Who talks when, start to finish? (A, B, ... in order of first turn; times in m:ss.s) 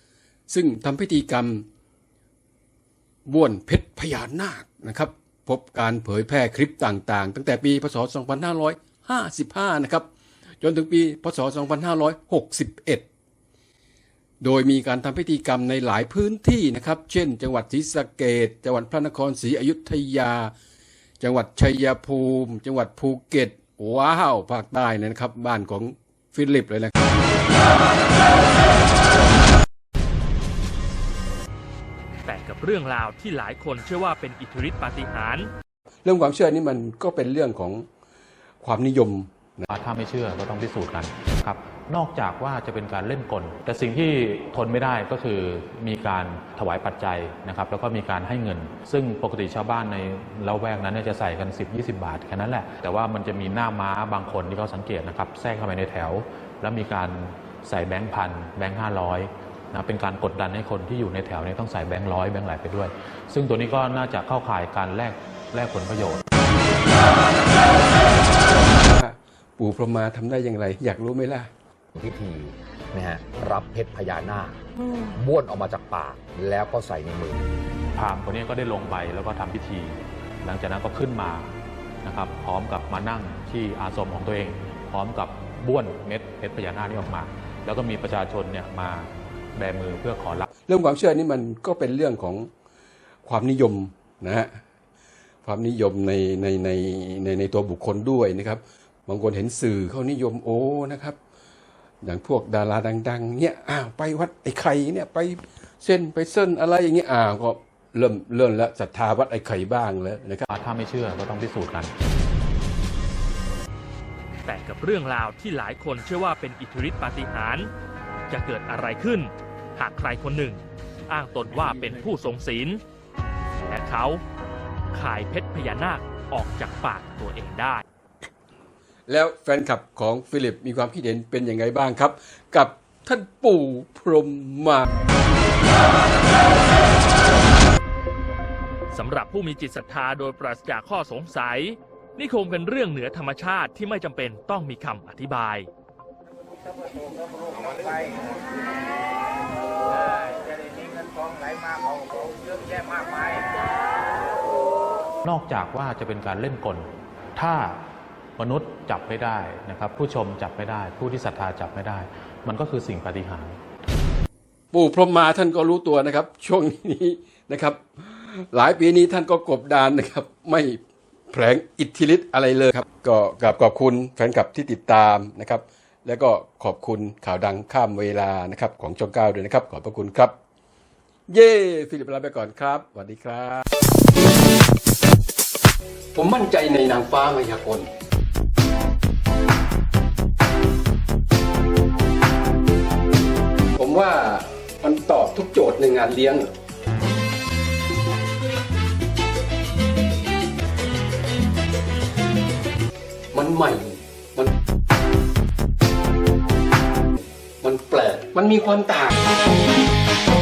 0:00.5-0:01.6 A
0:03.2-0:10.0 A
0:10.6-0:13.0 A
0:14.4-0:20.5 A
0:21.2-0:26.9 A
0:32.2-0:35.5 B
0:36.0-0:37.8 A
0:38.6-0:39.6 A
0:39.7-1:06.2 C
1:08.7-1:11.5 A
1:11.9-1:17.5 D
1:17.9-1:30.5 C
1:30.7-1:32.5 A
1:33.2-1:34.6 A
1:35.4-1:41.2 A
1:42.0-1:50.4 A
1:50.5-1:51.9 C
1:54.4-1:57.7 B
1:58.3-2:02.8 B
2:03.6-2:04.2 B
2:04.9-2:07.8 B
2:09.1-2:14.9 A
2:18.9-2:25.7 B
2:27.0-2:28.2 E
2:30.5-2:33.4 E
2:35.2-2:37.8 C
2:38.4-2:43.6 C
2:44.7-2:50.8 A
2:51.3-3:00.4 A
3:01.3-3:03.6 A
3:06.1-3:07.9 A
3:13.8-3:16.5 A
3:23.3-3:24.5 A
3:27.6-3:29.2 A